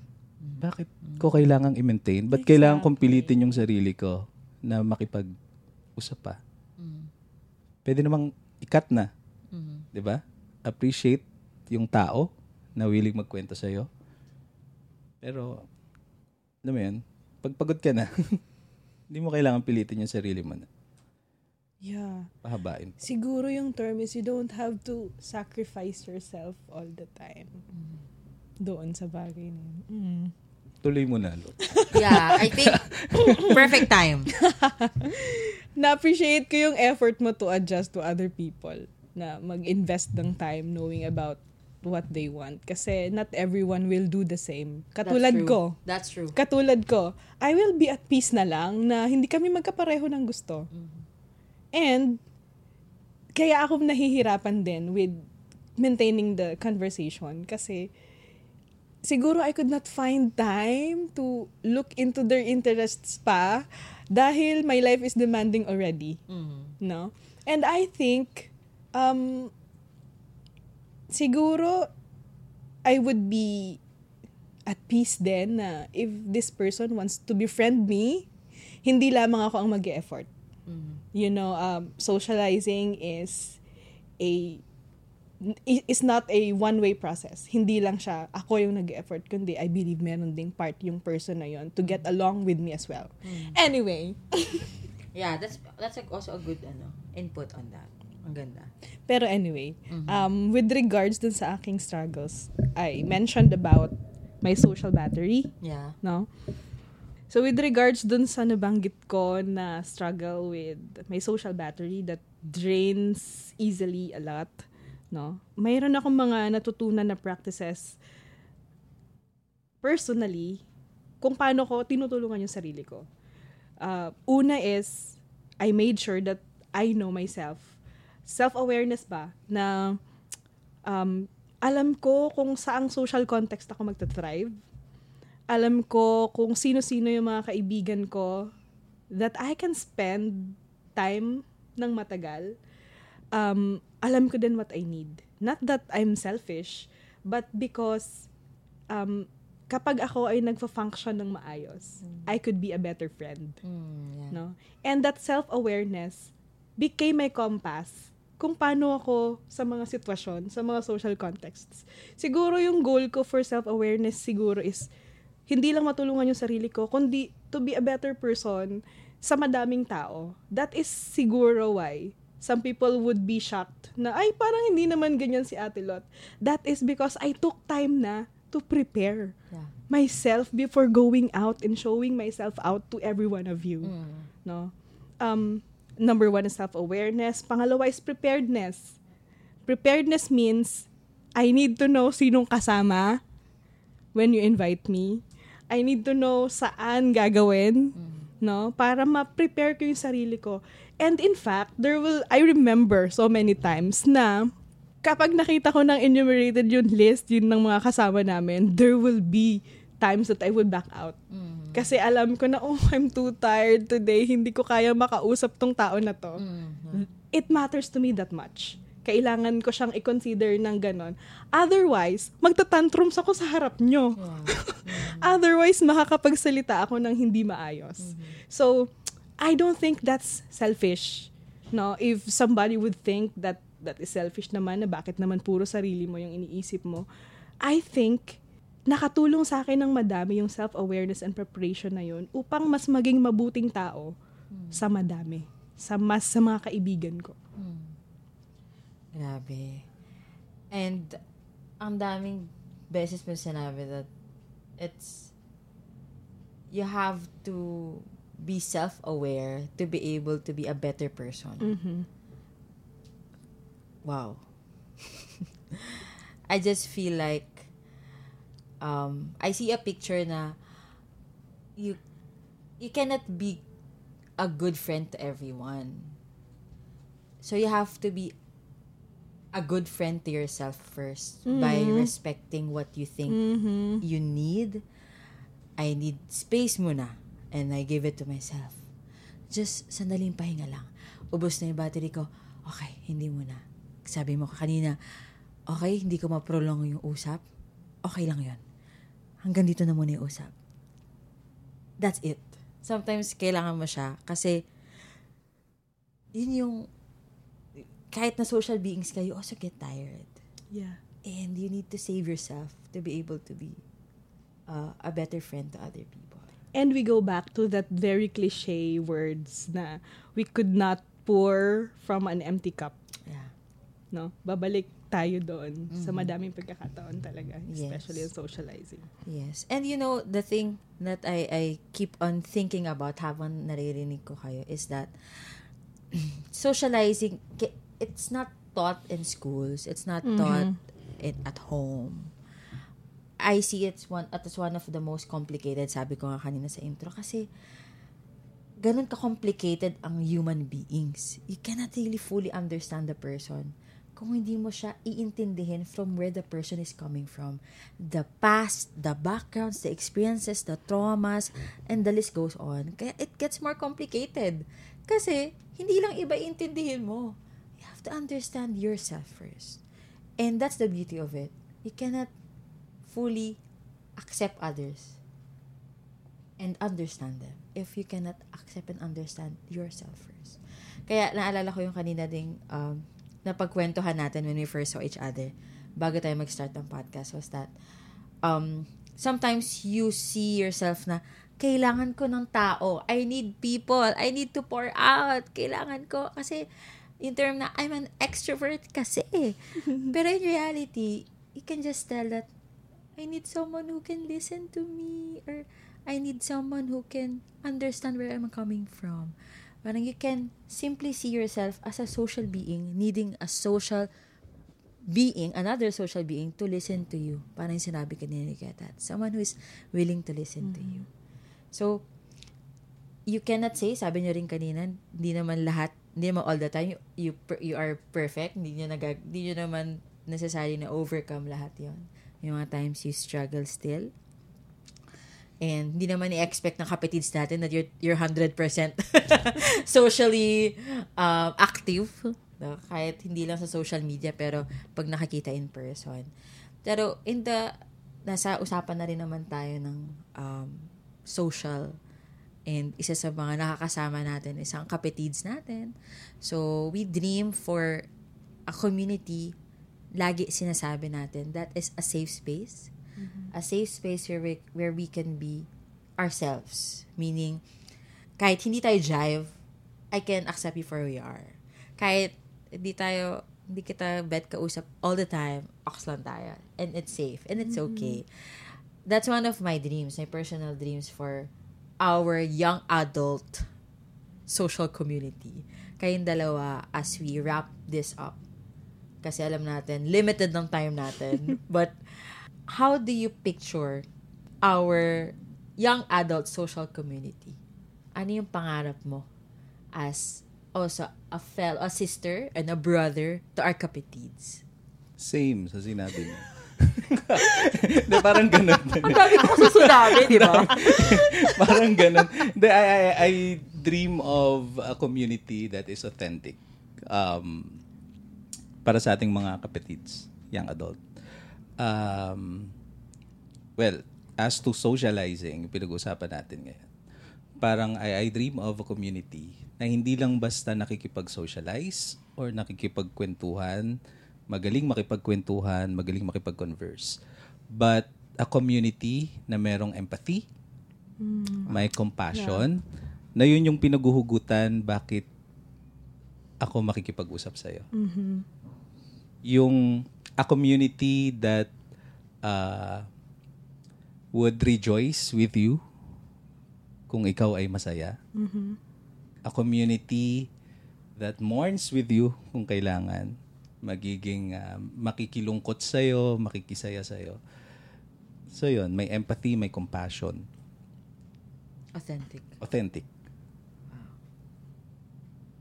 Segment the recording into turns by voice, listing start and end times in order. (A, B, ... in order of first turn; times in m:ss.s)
0:00.4-0:01.3 A
0:00.6-0:05.3 B
0:02.3-0:03.6 C
0:06.0-0:06.4 B
0:06.8-0:07.1 A
0:07.8-0:09.1 B
0:09.5-0:09.9 A
0:09.9-0:13.9 B
0:15.2-0:15.6 B
0:16.6-0:18.4 B
0:19.1-0:20.7 B
0:21.8-0:22.3 C
0:22.4-0:22.9 B
0:23.0-0:27.6 C
0:28.6-0:30.3 C
0:30.8-0:33.7 B
0:31.6-0:32.2 C
0:31.9-0:32.8 A
0:33.2-0:33.8 C
0:33.3-0:34.3 A
0:34.3-0:45.8 C
0:45.0-0:46.4 A
0:46.3-0:50.7 C
0:50.7-0:51.0 A
0:51.7-0:52.2 C
0:53.4-0:57.9 C
0:59.0-1:06.2 C
1:06.3-1:06.7 A
1:06.8-1:09.5 C
1:11.1-1:11.9 C
1:12.8-1:13.8 C
1:14.7-1:18.3 C
1:18.8-1:20.3 C
1:20.7-1:21.0 A
1:21.1-1:23.6 C
1:24.2-1:24.6 C
1:25.4-1:34.7 C
1:33.2-1:33.6 A
1:35.1-1:38.7 A
1:39.1-1:46.3 C
1:39.9-1:40.3 A
1:45.6-1:46.0 A
1:47.3-1:58.0 C
1:59.8-2:00.6 C
2:01.2-2:03.0 C
2:03.8-2:07.7 C
2:08.3-2:10.0 C
2:10.8-2:14.5 C
2:15.5-2:18.5 C
2:19.1-2:22.5 C
2:23.3-2:28.2 C
2:28.9-2:33.6 C
2:32.0-2:32.3 A
2:33.6-2:34.4 A
2:34.3-2:44.9 C
2:45.5-2:59.3 C
2:59.9-3:03.9 C
3:03.8-3:04.3 A
3:04.4-3:09.0 C
3:09.7-3:13.2 C
3:14.1-3:24.5 C
3:18.0-3:18.3 A
3:25.0-3:31.2 C
3:31.3-3:31.9 A
3:31.7-3:36.4 C
3:36.4-3:37.1 A
3:37.0-3:57.0 C
3:44.2-3:45.4 A
3:48.0-3:48.4 A
3:57.6-4:04.1 C
4:04.5-4:04.8 A
4:04.7-4:07.4 C
4:07.6-4:08.0 A
4:09.1-4:09.9 A
4:10.7-4:11.2 A
4:11.8-4:14.1 A
4:14.8-4:15.3 A
4:16.7-4:21.7 A
4:21.6-4:22.1 C
4:24.0-4:24.4 A
4:25.7-4:27.7 A
4:28.8-4:30.6 A
4:32.8-4:33.6 A
4:34.4-4:36.2 A
4:37.4-4:38.3 A
4:39.5-4:43.4 A
4:41.4-4:42.1 C
4:43.3-4:44.0 C
4:44.0-4:44.8 A
4:45.8-4:48.8 A
4:49.5-4:55.0 A
4:55.7-4:57.4 A
4:58.0-4:58.6 A
4:59.4-5:00.5 A
5:02.0-5:04.6 A
5:06.3-5:06.9 A
5:08.1-5:10.3 A
5:10.7-5:11.0 C
5:11.2-5:13.8 A
5:14.7-5:16.5 A
5:16.7-5:22.9 C
5:23.2-5:23.5 A
5:24.1-5:29.1 C
5:25.9-5:26.3 A
5:27.7-5:28.3 A
5:29.2-5:35.6 A
5:36.1-5:40.7 A
5:40.2-5:40.8 C
5:41.2-5:42.3 A
5:43.4-5:47.5 A
5:48.8-6:09.8 A
6:10.4-6:12.3 A
6:13.0-6:13.6 A
6:14.2-6:15.2 A
6:16.6-6:27.7 A
6:28.4-6:36.6 A
6:37.2-6:42.5 A
6:43.2-6:54.1 A
6:55.1-7:01.0 A
7:00.6-7:01.0 C
7:01.7-7:02.0 A
7:03.3-7:14.1 A
7:15.6-7:26.3 A
7:26.8-7:27.7 A
7:28.2-7:32.0 A
7:32.7-7:38.1 A
7:38.7-7:39.5 A
7:40.2-7:42.9 A
7:43.2-7:43.5 C
7:43.5-7:45.7 A
7:46.2-7:47.6 A
7:48.4-7:49.6 A
7:50.1-8:01.5 A
7:57.6-7:58.2 C
8:02.0-8:03.7 A
8:04.5-8:08.4 A
8:09.2-8:14.0 A
8:14.6-8:17.6 A
8:18.2-8:19.3 A
8:19.9-8:24.6 A
8:25.2-8:36.6 B
8:29.0-8:31.8 A
8:37.1-8:37.8 B
8:38.8-8:41.0 B
8:41.8-8:42.7 B
8:43.8-8:46.8 B
8:47.6-8:53.9 B
8:54.5-8:57.2 B
8:57.7-9:00.5 B
9:01.2-9:01.8 C
9:01.7-9:02.8 B
9:02.3-9:02.7 C
9:03.4-9:05.3 B
9:06.6-9:07.9 B
9:07.9-9:08.4 C
9:09.5-9:11.7 B
9:12.4-9:13.0 B
9:14.3-9:15.8 B
9:17.1-9:18.2 B
9:18.3-9:18.8 C
9:19.5-9:20.5 B
9:21.2-9:27.4 B
9:28.5-9:30.4 B
9:31.9-9:32.6 A
9:32.6-9:33.1 B
9:33.9-9:34.2 A